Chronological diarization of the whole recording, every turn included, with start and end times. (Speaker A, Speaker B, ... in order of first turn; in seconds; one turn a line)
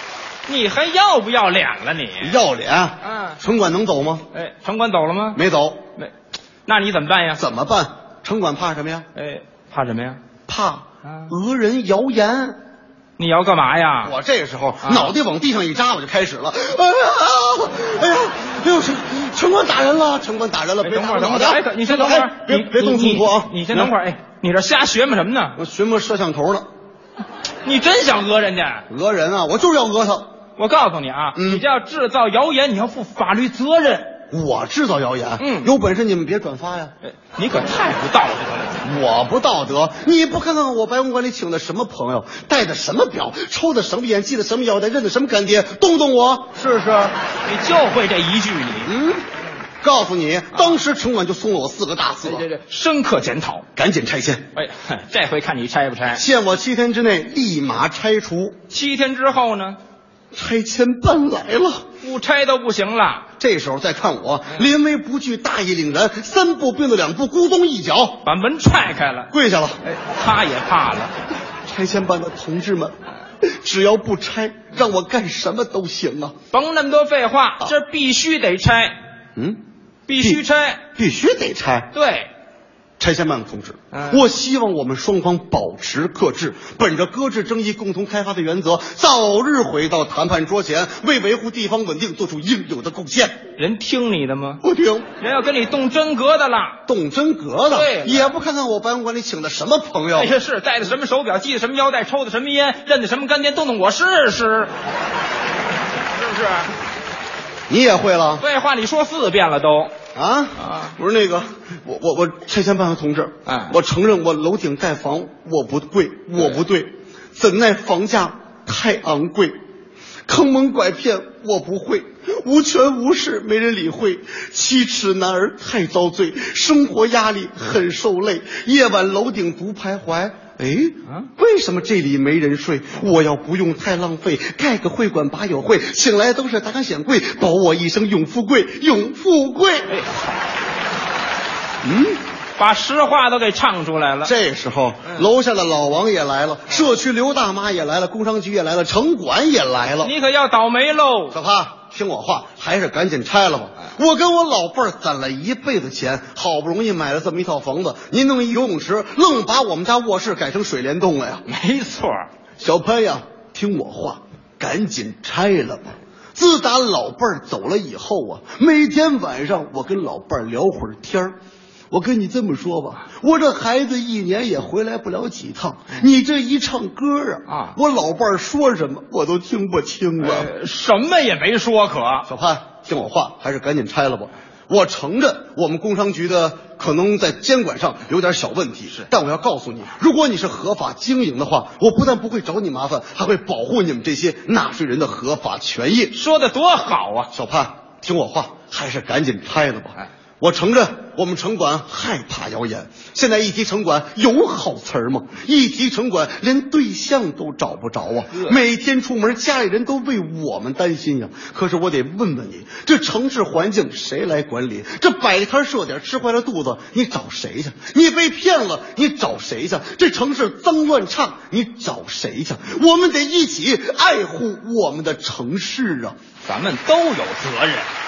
Speaker A: 0.5-2.4
Speaker B: 2.2-4.2
Speaker A: 3.0-3.4
Speaker A: 4.3-5.4
Speaker B: 5.3-5.8
Speaker A: 6.7-7.4
Speaker B: 7.4-9.1
Speaker A: 9.1-10.2
Speaker B: 10.5-12.6
Speaker A: 11.0-11.3
Speaker A: 13.2-14.2
Speaker B: 14.0-23.9
Speaker A: 14.8-15.1
Speaker A: 20.8-25.6
Speaker B: 25.6-26.6
Speaker A: 27.6-28.8
Speaker B: 28.9-30.3
Speaker A: 30.6-34.1
Speaker B: 31.4-31.6
Speaker B: 34.3-36.9
Speaker A: 35.4-35.7
Speaker A: 37.0-38.8
Speaker B: 38.8-47.1
Speaker A: 47.5-48.9
Speaker B: 48.9-49.2
Speaker B: 49.8-52.5
Speaker A: 50.5-50.8
Speaker A: 52.2-53.6
Speaker B: 53.8-54.4
Speaker A: 54.5-56.2
Speaker B: 56.1-58.6
Speaker A: 58.7-59.8
Speaker B: 60.3-61.8
Speaker A: 62.0-63.3
Speaker B: 63.4-68.2
Speaker A: 68.2-69.3
Speaker B: 69.3-69.8
Speaker A: 69.8-71.1
Speaker B: 71.6-76.3
Speaker A: 76.5-79.0
Speaker A: 80.1-80.8
Speaker B: 80.9-81.9
Speaker A: 81.9-82.3
Speaker B: 83.0-93.4
Speaker A: 83.9-84.3
Speaker A: 93.5-94.6
Speaker B: 94.6-95.0
Speaker A: 95.2-96.8
Speaker B: 96.9-100.3
Speaker A: 97.7-98.3
Speaker A: 100.1-104.7
Speaker A: 106.2-106.7
Speaker B: 107.7-108.4
Speaker A: 108.4-109.9
Speaker B: 110.1-119.5
Speaker A: 110.6-110.9
Speaker A: 113.5-113.8
Speaker A: 116.3-116.6
Speaker B: 120.3-139.8
Speaker A: 139.9-140.3
Speaker B: 141.8-142.2
Speaker A: 142.6-144.3
Speaker B: 144.2-150.1
Speaker A: 150.0-151.3
Speaker B: 151.3-161.4
Speaker A: 161.5-162.3
Speaker B: 162.6-171.3
Speaker B: 171.9-180.5
Speaker A: 177.5-177.8
Speaker A: 180.2-182.2
Speaker B: 182.2-196.1
Speaker A: 196.1-197.3
Speaker B: 197.3-226.2
Speaker A: 208.3-208.6
Speaker A: 226.4-227.9